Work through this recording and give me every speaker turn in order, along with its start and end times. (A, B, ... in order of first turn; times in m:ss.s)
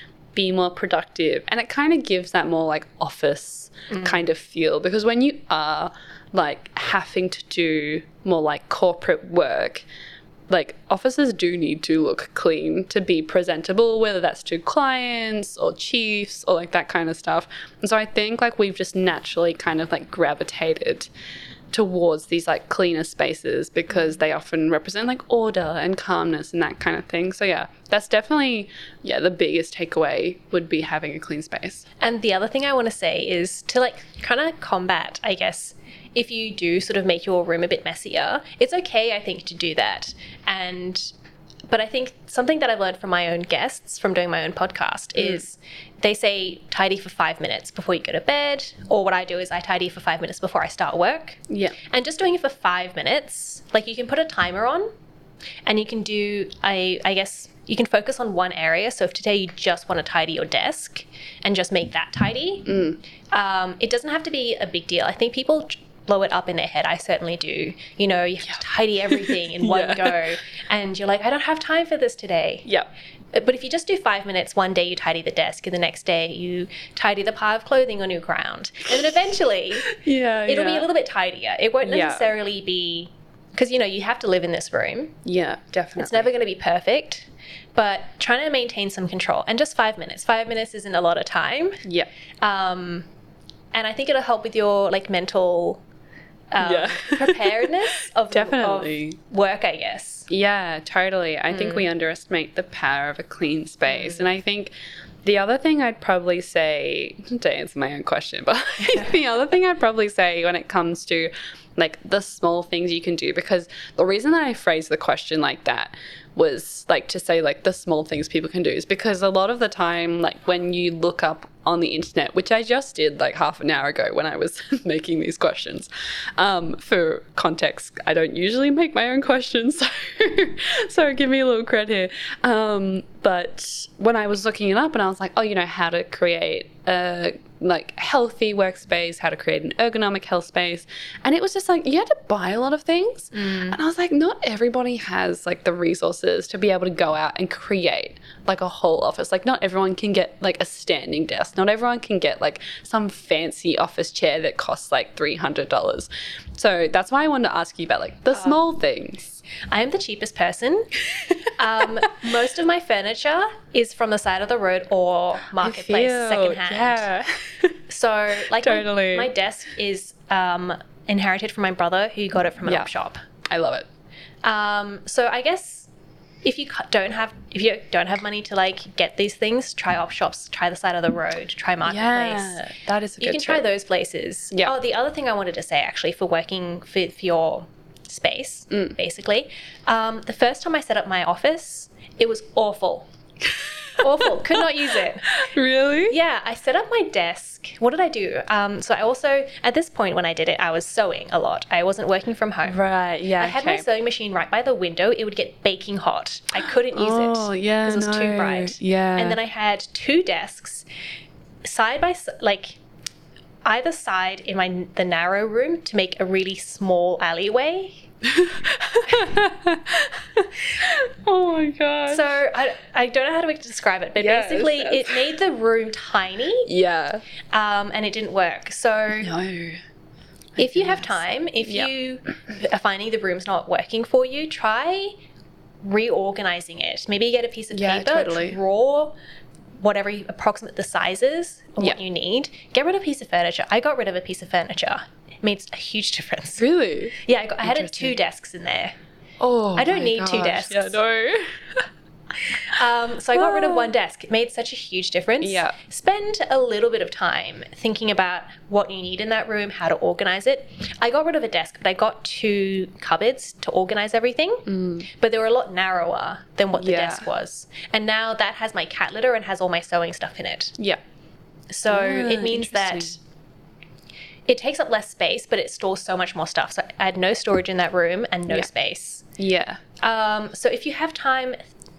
0:00.3-0:09.8 A
0:10.5-0:21.1 A
0:21.7-0:31.9 A
0:32.0-0:41.1 B
0:41.7-0:54.9 B
0:51.5-0:51.8 A
0:55.7-1:02.8 B
1:02.7-1:03.0 A
1:03.3-1:12.7 B
1:09.1-1:10.2 A
1:13.3-1:20.0 B
1:19.9-1:20.9 A
1:20.5-1:25.2 B
1:21.8-1:22.3 A
1:25.2-1:26.3 A
1:26.0-1:31.8 B
1:32.4-1:33.1 B
1:33.7-1:35.8 B
1:36.5-1:40.3 B
1:36.6-1:39.2 A
1:40.3-1:44.7 A
1:41.5-1:41.8 B
1:43.9-1:44.2 B
1:45.2-2:39.4 A
2:23.4-2:23.8 B
2:39.7-2:40.9 B
2:41.5-2:47.1 B
2:45.6-2:47.8 A
2:47.9-2:53.2 B
2:48.6-2:49.3 A
2:53.5-2:53.9 A
2:54.4-2:55.9 B
2:56.4-3:13.1 B
3:01.8-3:03.6 A
3:13.5-3:14.6 A
3:14.0-3:15.3 B
3:15.3-3:16.2 A
3:16.1-3:22.8 B
3:22.7-3:23.8 A
3:23.4-3:30.9 B
3:26.9-3:29.4 A
3:31.6-3:32.8 B
3:33.6-3:38.0 B
3:38.3-3:42.3 A
3:42.1-3:46.7 B
3:44.2-3:45.3 A
3:46.6-3:47.2 A
3:47.5-3:49.3 B
3:49.2-3:49.8 A
3:50.6-3:55.2 B
3:50.6-3:51.9 A
3:55.8-3:59.1 B
3:57.7-3:58.6 A
3:59.8-4:06.6 B
4:06.6-4:08.2 A
4:07.2-4:09.0 B
4:09.4-4:11.8 A
4:09.8-4:11.0 B
4:12.6-4:30.8 B
4:13.4-4:13.9 A
4:15.4-4:15.8 A
4:24.7-4:25.1 A
4:26.8-4:27.3 A
4:31.7-4:33.2 B
4:31.9-4:33.2 A
4:34.5-4:39.2 B
4:39.4-4:39.8 A
4:40.0-4:41.6 B